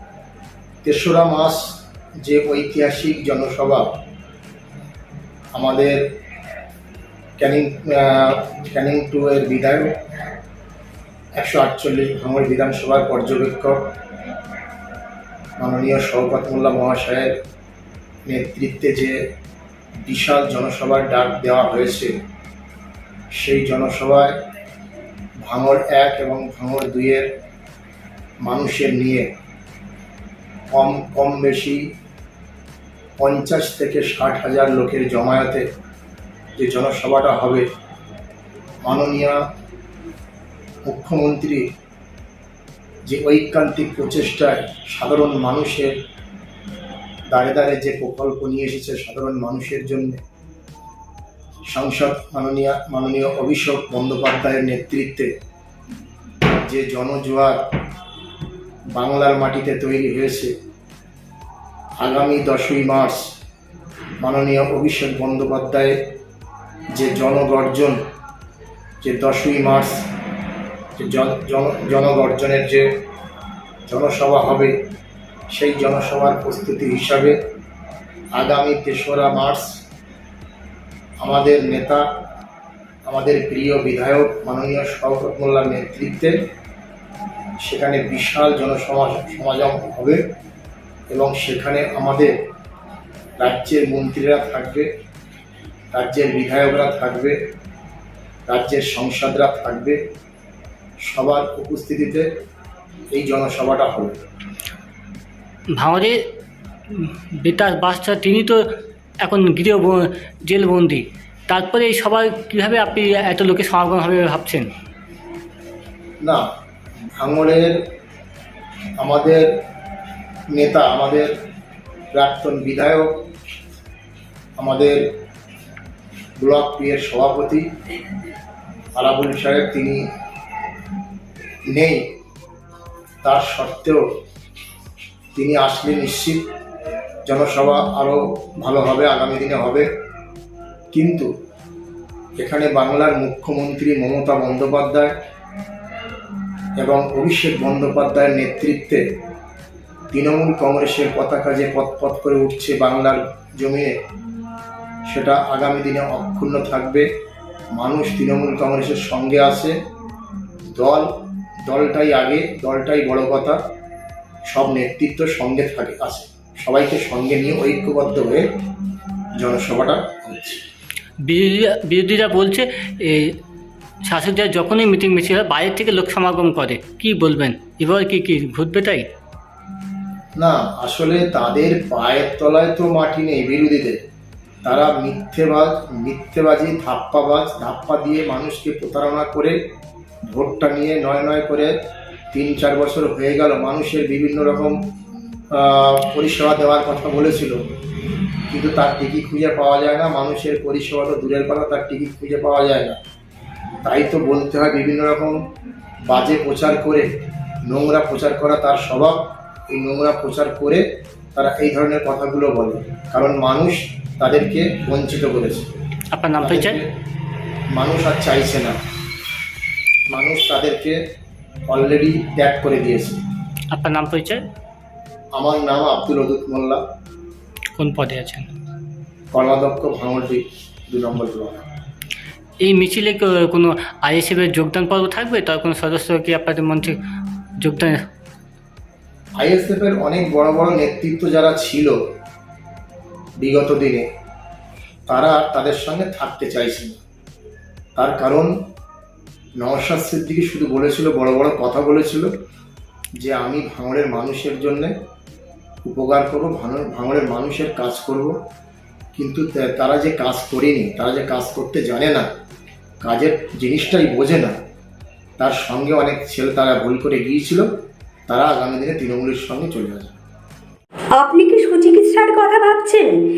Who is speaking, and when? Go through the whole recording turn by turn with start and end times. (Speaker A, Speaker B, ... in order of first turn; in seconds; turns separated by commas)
Speaker A: 0.8-1.6, Speaker A: 2.2-3.9, Speaker A: 5.5-6.0, Speaker A: 7.4-9.9, Speaker A: 11.4-13.8, Speaker A: 15.6-17.3, Speaker A: 18.3-19.2, Speaker A: 20.0-22.1, Speaker A: 23.3-24.4, Speaker A: 25.4-27.3, Speaker A: 28.4-29.3, Speaker A: 30.7-31.9, Speaker A: 33.2-35.6, Speaker A: 36.6-37.7, Speaker A: 38.8-39.4, Speaker A: 40.9-41.7, Speaker A: 43.0-45.9, Speaker A: 47.3-50.2, Speaker A: 51.7-55.3, Speaker A: 56.5-57.6, Speaker A: 58.9-60.5, Speaker A: 62.0-63.3, Speaker A: 64.2-66.0, Speaker A: 66.9-68.0, Speaker A: 69.0-70.0, Speaker A: 71.0-72.9, Speaker A: 73.9-74.8, Speaker A: 75.5-77.4, Speaker A: 78.3-79.8, Speaker A: 81.2-82.0, Speaker A: 83.1-86.4, Speaker A: 87.6-90.2, Speaker A: 91.1-92.3, Speaker A: 93.4-94.9, Speaker A: 95.9-97.4, Speaker A: 98.5-100.0, Speaker A: 101.0-102.3, Speaker A: 103.1-104.2, Speaker B: 105.8-106.2, Speaker B: 106.9-108.6, Speaker B: 109.2-114.7, Speaker A: 117.2-117.8, Speaker A: 119.0-119.5, Speaker A: 120.5-121.3, Speaker A: 122.1-123.1, Speaker A: 124.6-125.0, Speaker A: 126.4-127.7, Speaker A: 128.9-130.1, Speaker A: 131.7-132.0, Speaker A: 133.2-134.0, Speaker A: 135.3-136.4, Speaker A: 137.2-139.9, Speaker A: 140.9-141.3, Speaker A: 142.4-145.2, Speaker A: 146.8-149.0, Speaker A: 150.1-154.0, Speaker A: 155.1-157.1, Speaker A: 157.7-159.7, Speaker A: 160.7-161.1, Speaker A: 161.6-163.6, Speaker A: 164.5-168.4, Speaker A: 169.4-170.6, Speaker B: 171.2-173.4, Speaker B: 174.0-179.1, Speaker A: 180.4-184.0, Speaker A: 184.6-189.6, Speaker A: 190.2-191.7, Speaker A: 192.3-194.8, Speaker A: 195.5-197.6, Speaker A: 198.5-203.0, Speaker A: 203.8-205.4, Speaker A: 206.1-207.1, Speaker A: 207.7-215.7, Speaker B: 216.1-216.8, Speaker A: 216.4-216.9, Speaker A: 217.7-218.8, Speaker A: 220.1-221.0, Speaker A: 221.7-223.2, Speaker B: 223.7-224.4, Speaker A: 225.3-226.8, Speaker B: 227.8-228.5, Speaker A: 229.3-231.6, Speaker B: 232.6-237.0, Speaker B: 237.6-238.1, Speaker A: 239.4-241.9, Speaker A: 243.4-244.0, Speaker A: 245.1-247.0, Speaker A: 248.0-248.5, Speaker A: 249.6-252.3, Speaker A: 253.2-254.9, Speaker A: 255.8-258.4, Speaker A: 259.1-262.2, Speaker A: 263.0-264.5, Speaker A: 265.4-267.7, Speaker A: 268.3-270.1, Speaker C: 271.2-273.1